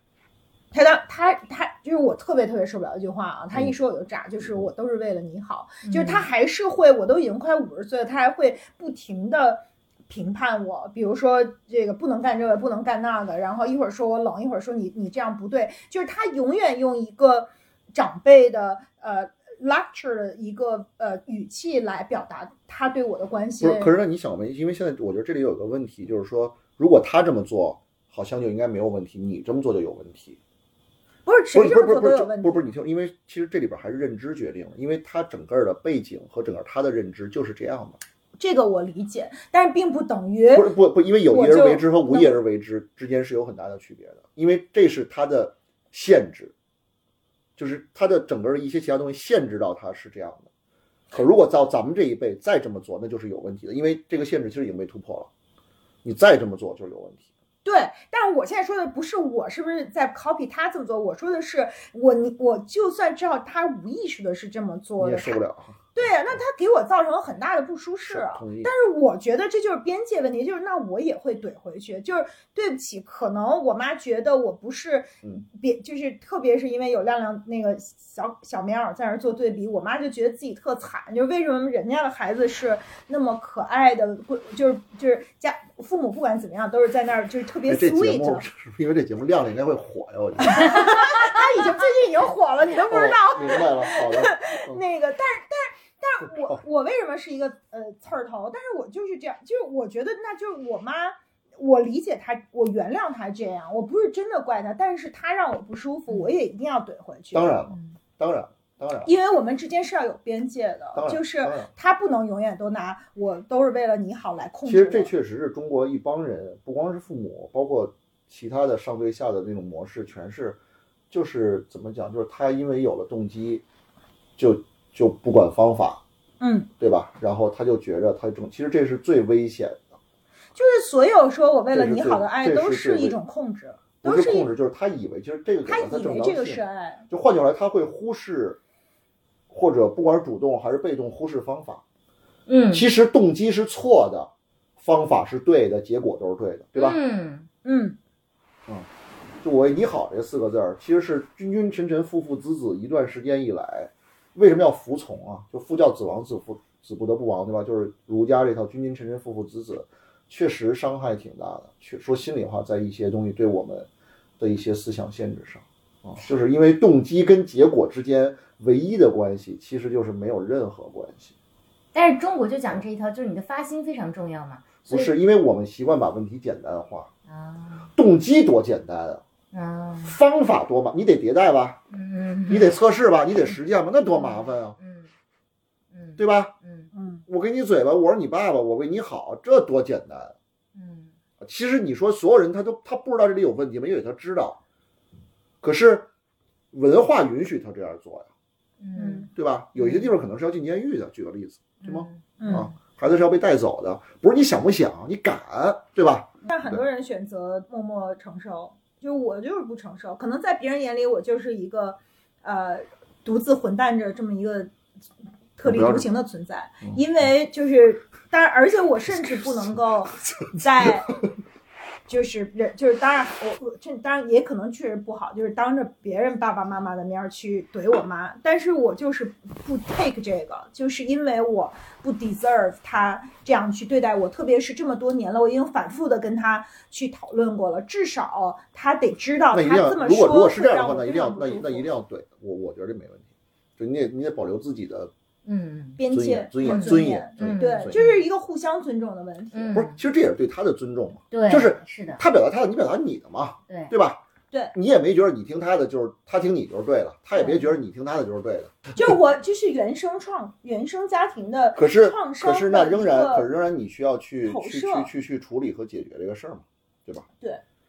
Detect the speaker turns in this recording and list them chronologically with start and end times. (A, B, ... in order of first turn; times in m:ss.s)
0:00.7-0:23.9 A
0:05.8-0:06.3 B
0:23.6-0:30.4 C
0:31.2-0:32.6 A
0:31.5-0:38.0 C
0:38.4-0:40.7 A
0:40.5-0:46.5 C
0:41.2-0:42.4 A
0:47.6-0:50.5 C
0:51.1-0:55.3 C
0:56.0-0:57.3 C
0:57.6-1:05.4 A
1:05.0-1:06.4 C
1:05.9-1:28.4 A
1:08.0-1:08.7 C
1:27.7-1:31.0 C
1:30.4-1:47.6 A
1:32.9-1:34.8 C
1:47.3-1:49.1 C
1:47.7-1:48.0 B
1:49.0-1:55.1 A
1:50.9-1:51.7 C
1:54.6-2:00.6 C
2:01.1-2:03.6 C
2:04.4-2:06.0 C
2:06.4-2:06.7 A
2:06.8-2:09.8 C
2:10.6-2:14.5 A
2:11.7-2:13.2 C
2:14.0-2:18.6 C
2:15.6-2:17.0 A
2:19.5-2:21.8 C
2:22.5-2:22.8 B
2:22.7-2:27.0 C
2:26.8-2:27.5 B
2:27.6-2:28.0 A
2:29.4-2:43.9 C
2:44.4-2:51.3 C
2:51.9-2:55.1 B
2:54.8-2:57.1 C
2:57.3-2:57.9 B
2:58.0-2:59.2 C
2:59.5-3:00.2 B
3:00.0-3:01.8 C
3:01.9-3:02.8 B
3:02.5-3:04.8 C
3:04.1-3:05.1 B
3:05.9-3:06.9 B
3:06.2-3:06.5 C
3:06.9-3:07.2 A
3:07.3-3:10.3 C
3:10.7-3:11.1 B
3:11.4-3:14.6 C
3:15.6-3:16.1 C
3:16.7-3:18.3 C
3:18.8-3:20.1 B
3:18.9-3:19.3 A
3:19.3-3:26.8 C
3:21.8-3:22.7 B
3:22.4-3:22.7 A
3:26.4-3:34.7 A
3:35.6-3:41.2 A
3:35.6-3:36.1 C
3:42.1-4:01.9 A
3:59.5-4:05.1 C
4:05.4-4:06.0 B
4:06.0-4:09.9 A
4:06.1-4:08.0 C
4:06.6-4:08.2 B
4:09.5-4:09.9 B
4:09.7-4:14.2 C
4:11.3-4:12.2 B
4:14.7-4:18.9 C
4:17.3-4:17.7 B
4:18.9-4:23.5 A
4:21.8-4:27.2 C
4:24.4-4:25.1 A